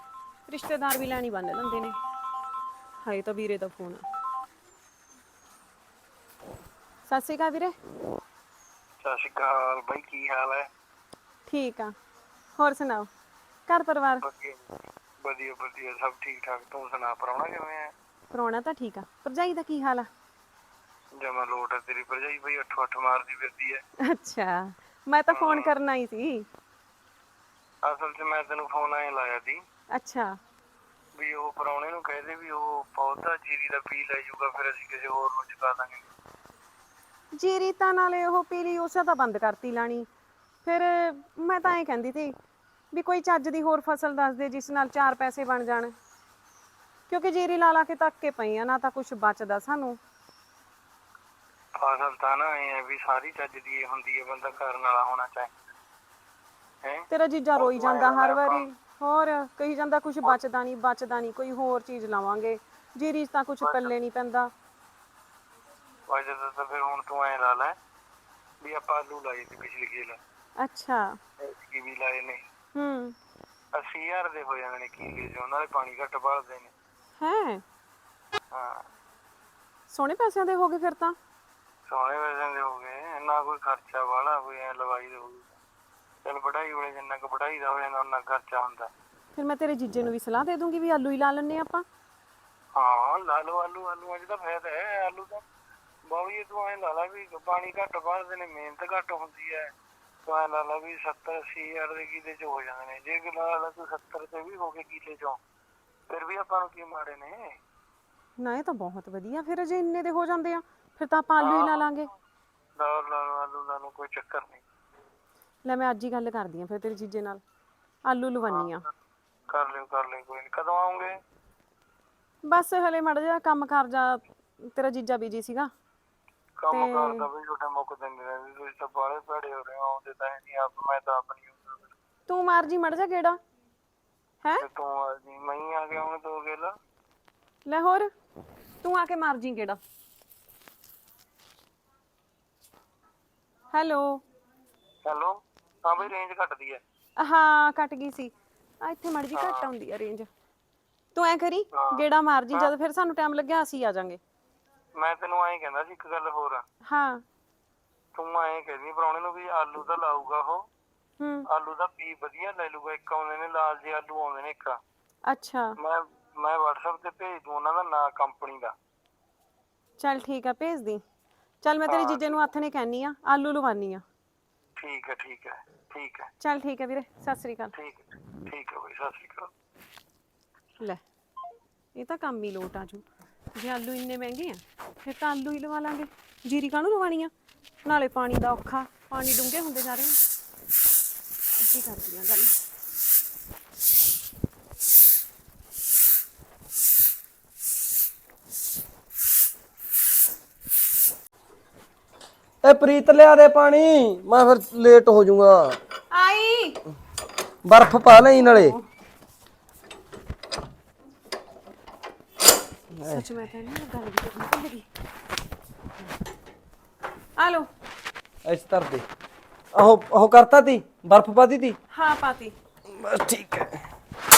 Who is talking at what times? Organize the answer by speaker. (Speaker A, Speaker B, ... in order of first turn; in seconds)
Speaker A: 0.5-1.9, 3.0-4.0, 7.1-7.7, 11.5-11.9, 12.6-13.1, 13.7-14.2, 18.3-20.1, 24.1-26.4, 29.9-30.3, 37.3-40.1, 40.6-42.3, 42.9-45.9, 47.1-50.0, 57.1-64.5, 70.6-71.2, 72.7-73.1, 77.2-77.6, 79.9-81.1, 89.3-91.8, 108.4-112.1, 115.6-117.4, 118.0-118.9, 122.5-125.7, 126.7-127.3, 132.3-133.4, 137.7-138.1, 138.8-139.8, 143.7-144.2, 147.2-150.3, 151.1-154.2, 156.8-157.2, 161.2-161.5, 165.3-165.8, 170.0-171.0, 171.6-174.0, 176.4-177.7, 181.9-183.0, 183.5-187.3, 187.8-190.2, 191.5-192.6, 206.1-206.8, 208.5-208.8, 213.0-214.9, 217.4-217.7, 221.9-222.5
Speaker B: 9.0-10.7, 14.2-14.7, 15.2-17.9, 21.1-23.8, 25.3-25.7, 27.8-29.6, 31.1-36.0, 51.7-55.5, 56.8-58.7, 63.6-63.9, 66.1-67.8, 68.6-70.2, 71.4-72.4, 73.7-76.7, 78.5-78.8, 81.9-85.5, 86.2-88.9, 92.7-95.4, 96.1-99.7, 100.2-105.4, 106.1-107.6, 111.4-111.9, 112.8-114.6, 118.5-118.7, 119.5-121.2, 126.6-131.9, 134.6-136.8, 145.0-146.8, 149.3-149.7, 151.7-152.7, 154.9-156.6, 158.1-160.7, 161.5-164.8, 165.8-168.7, 171.9-172.4, 174.8-176.3, 177.7-179.5
Speaker C: 202.6-205.8, 207.6-208.8, 212.9-213.2, 218.4-219.0, 219.7-221.8, 222.9-223.8